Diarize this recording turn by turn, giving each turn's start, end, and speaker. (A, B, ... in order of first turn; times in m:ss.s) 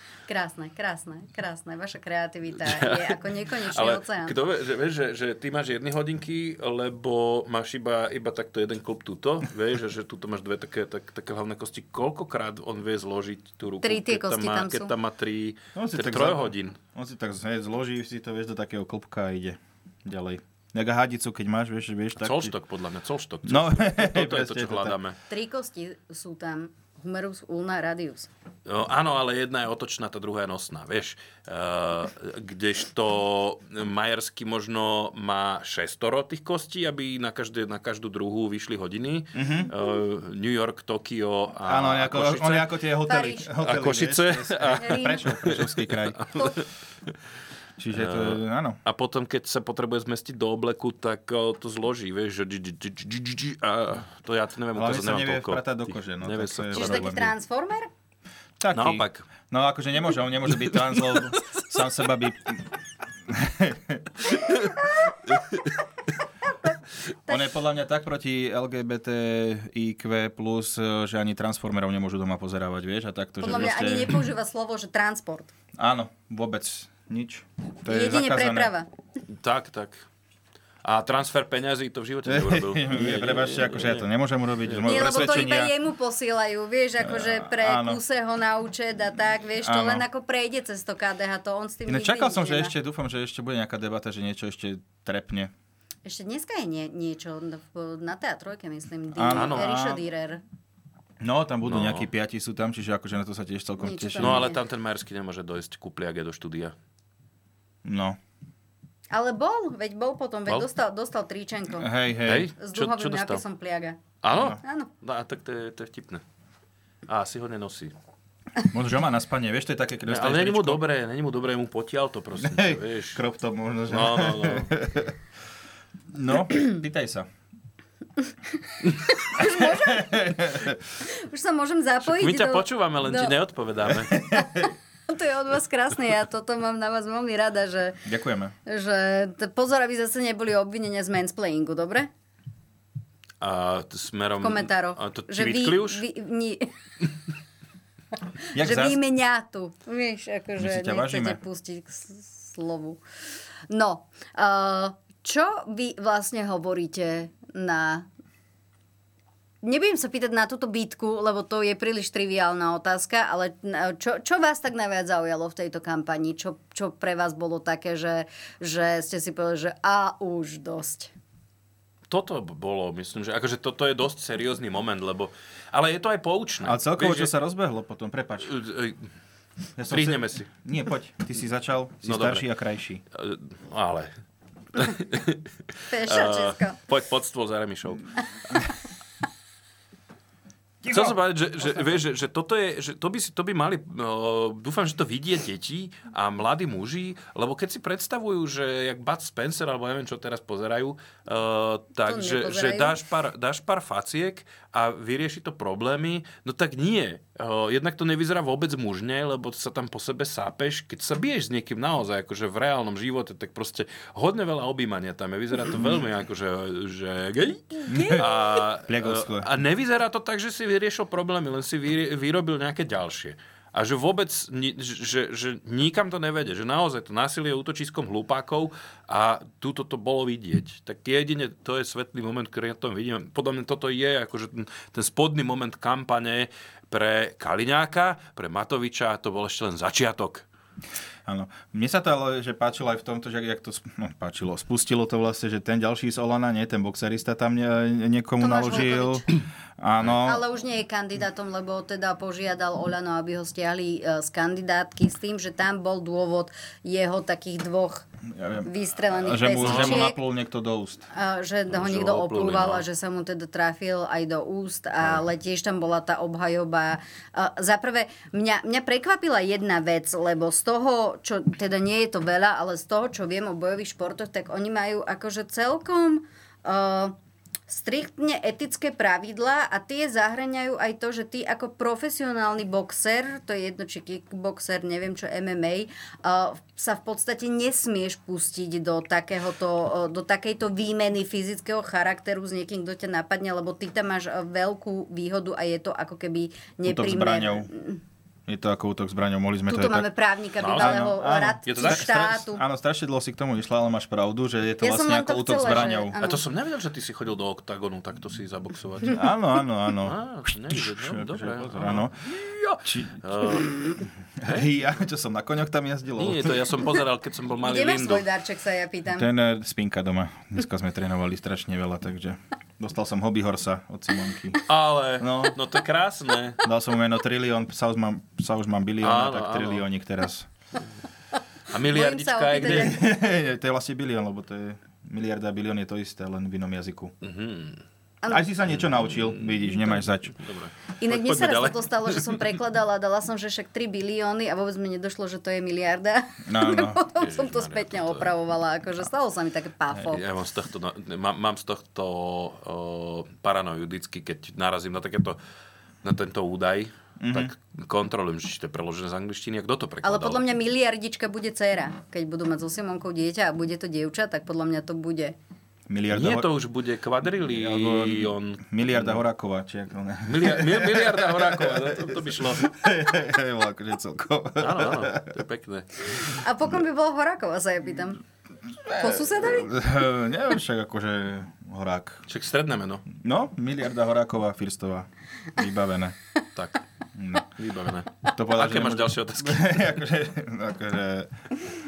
0:00.3-0:04.4 A
0:02.6-0:16.8 B
0:13.8-0:14.9 A
0:15.8-0:22.5 C
0:22.2-0:25.2 B
0:23.5-0:25.0 C
0:25.3-0:28.3 A
0:28.7-0:42.7 B
0:39.4-0:39.7 C
0:41.6-0:46.2 C
0:43.1-0:43.5 A
0:43.6-0:46.3 B
0:44.8-0:45.3 A
0:47.8-0:48.8 C
0:47.9-0:57.1 B
0:54.8-0:57.3 C
0:56.7-0:57.9 A
0:58.6-1:02.6 C
0:58.7-0:59.3 B
1:00.7-1:01.2 B
1:03.3-1:04.0 C
1:07.3-1:14.2 C
1:13.4-1:15.5 A
1:15.8-1:18.7 C
1:17.9-1:18.9 A
1:19.3-1:20.1 B
1:20.8-1:24.1 B
1:22.3-1:25.7 C
1:24.6-1:25.5 B
1:24.8-1:32.7 A
1:27.0-1:28.0 C
1:29.6-1:30.0 C
1:31.9-1:35.5 C
1:36.0-1:40.4 A
1:39.2-1:40.0 C
1:39.3-1:39.7 B
1:41.2-1:44.5 C
1:41.7-1:42.1 B
1:43.8-1:44.6 A
1:44.2-1:46.8 B
1:47.8-1:48.2 C
1:49.1-1:51.9 A
1:51.8-1:52.5 C
1:52.2-1:53.4 B
1:52.6-1:54.0 A
1:54.2-1:56.2 B
1:54.6-1:54.9 A
1:57.1-1:57.9 B
1:58.7-2:00.8 C
2:00.1-2:03.2 B
2:02.4-2:05.1 C
2:03.9-2:04.7 B
2:06.1-2:07.3 C
2:09.1-2:10.4 A
2:09.4-2:10.8 C
2:11.1-2:13.3 A
2:12.0-2:14.2 B
2:14.1-2:14.4 C
2:14.3-2:18.0 A
2:18.0-2:18.5 C
2:18.7-2:22.1 A
2:23.4-2:26.0 B
2:24.4-2:26.6 A
2:28.5-2:29.0 C
2:28.6-2:33.0 A
2:30.6-2:31.4 C
2:33.7-2:38.1 A
2:39.6-2:51.1 A
2:52.1-2:57.3 B
2:56.6-2:58.5 C
2:58.5-2:59.0 B
2:59.8-3:03.0 C
2:59.9-3:00.5 B
3:02.0-3:02.5 B
3:03.1-3:04.1 B
3:04.8-3:05.4 B
3:05.9-3:06.8 A
3:06.1-3:08.1 B
3:10.8-3:11.2 C
3:10.9-4:00.4 B
3:22.0-3:23.0 A
3:37.9-3:39.5 C
4:01.3-4:09.2 C
4:08.4-4:09.2 A
4:09.8-4:10.4 C
4:10.1-4:18.1 A
4:18.3-4:21.1 C
4:18.6-4:20.2 A
4:19.6-4:20.1 B
4:21.1-4:37.2 A
4:21.7-4:22.8 B
4:37.7-4:58.0 A
4:56.8-4:57.7 C
4:58.5-5:00.1 C
4:59.7-5:02.6 A
5:00.6-5:01.1 B
5:00.7-5:06.1 C
5:01.6-5:02.1 B
5:04.8-5:06.4 A
5:05.7-5:09.2 B
5:09.1-5:12.2 C
5:10.0-5:14.7 B
5:12.8-5:13.6 C
5:14.4-5:16.6 C
5:16.2-5:18.3 B
5:17.6-5:19.3 A
5:19.1-5:24.6 C
5:24.7-5:26.6 B
5:25.2-5:25.6 C
5:26.6-5:30.5 C
5:29.0-5:29.8 B
5:31.7-5:33.0 B
5:31.9-5:33.0 A
5:32.6-5:37.1 C
5:37.2-5:37.8 B
5:38.3-5:40.4 C
5:38.7-5:42.4 B
5:41.0-5:50.2 A
5:46.5-5:47.0 C
5:47.2-5:48.3 B
5:50.0-5:55.4 B
5:56.0-6:00.4 B
5:57.2-5:57.5 C
6:00.0-6:05.4 A
6:05.9-6:06.5 C
6:06.1-6:09.2 B
6:07.4-6:15.3 C
6:10.3-6:12.8 B
6:14.6-6:16.1 B
6:16.2-6:18.2 A
6:18.9-6:22.2 C
6:19.0-6:19.7 A
6:22.3-6:23.1 B
6:23.2-6:26.2 C
6:27.2-6:27.5 C
6:27.6-6:29.8 B
6:28.2-6:31.3 C